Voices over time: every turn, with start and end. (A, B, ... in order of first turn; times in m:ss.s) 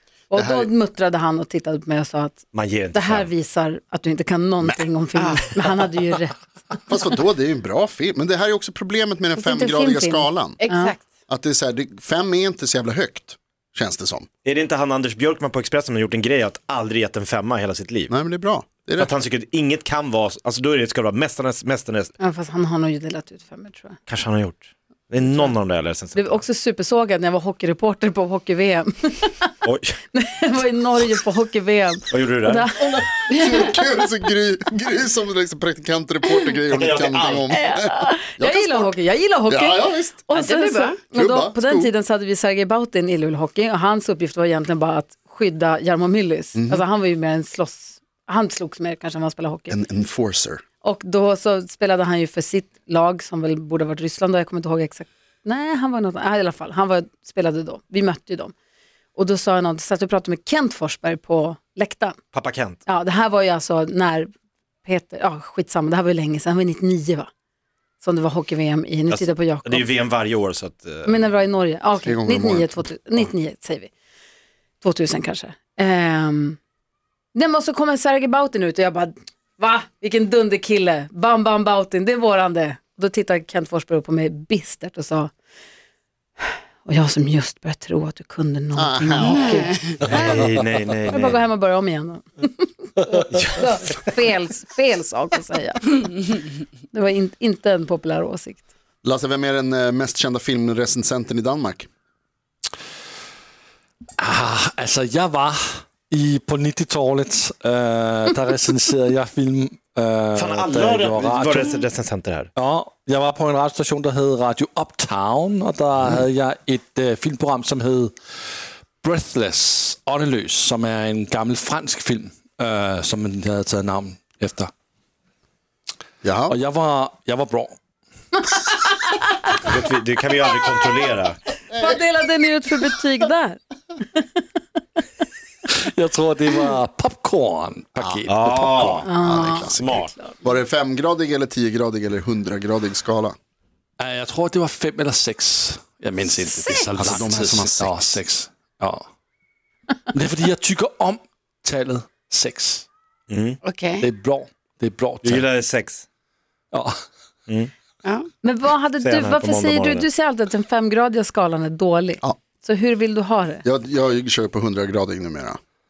0:00.3-0:06.8 A
0:00.3-0:00.7 B
0:02.5-0:03.3 C
0:05.2-0:05.5 D
0:06.9-0:10.6 B
0:09.4-0:11.0 A
0:10.6-0:11.0 D
0:11.3-0:14.3 B
0:14.4-0:18.1 C
0:18.1-0:19.1 B
0:19.0-0:22.1 C
0:22.2-0:24.0 A
0:24.1-0:26.4 C
0:26.2-0:29.5 A
0:29.6-0:29.9 C
0:30.1-0:33.1 A
0:32.1-0:32.7 C
0:32.8-0:39.0 B
0:33.3-0:33.6 D
0:36.7-0:37.6 C
0:37.7-0:38.2 D
0:38.4-0:49.8 A
0:39.5-0:40.2 B
0:40.3-0:41.0 D
0:41.1-0:41.9 B
0:46.6-0:46.8 B
0:49.7-0:50.6 B
0:50.8-0:58.5 A
0:59.2-1:02.2 A
1:02.3-1:02.8 C
1:02.9-1:04.3 A
1:04.8-1:07.3 A
1:08.0-1:09.9 A
1:09.1-1:11.2 C
1:11.1-1:13.9 A
1:12.0-1:13.3 B
1:14.8-1:16.6 A
1:17.3-1:25.3 A
1:26.8-1:30.0 A
1:28.8-1:29.7 B
1:29.3-1:29.8 D
1:30.0-1:31.4 C
1:31.1-1:36.4 A
1:33.3-1:33.7 C
1:36.9-1:38.6 A
1:39.0-1:41.9 B
1:44.2-1:51.7 E
1:50.4-1:52.5 C
1:52.6-1:58.1 E
1:59.0-2:04.7 E
2:06.2-2:06.6 B
2:06.5-2:07.8 E
2:09.5-2:11.4 C
2:11.7-2:12.0 B
2:11.8-2:13.6 A
2:15.7-2:19.0 E
2:18.3-2:19.1 C
2:19.1-2:20.4 A
2:19.1-2:23.4 B
2:19.8-2:20.1 C
2:24.0-2:29.1 E
2:26.9-2:28.2 B
2:30.1-2:32.9 E
2:33.3-2:33.6 C
2:33.6-2:34.0 D
2:34.0-2:35.4 E
2:35.2-2:36.0 C
2:36.7-2:37.0 E
2:38.4-2:43.6 A
2:39.0-2:40.1 C
2:43.6-2:45.6 B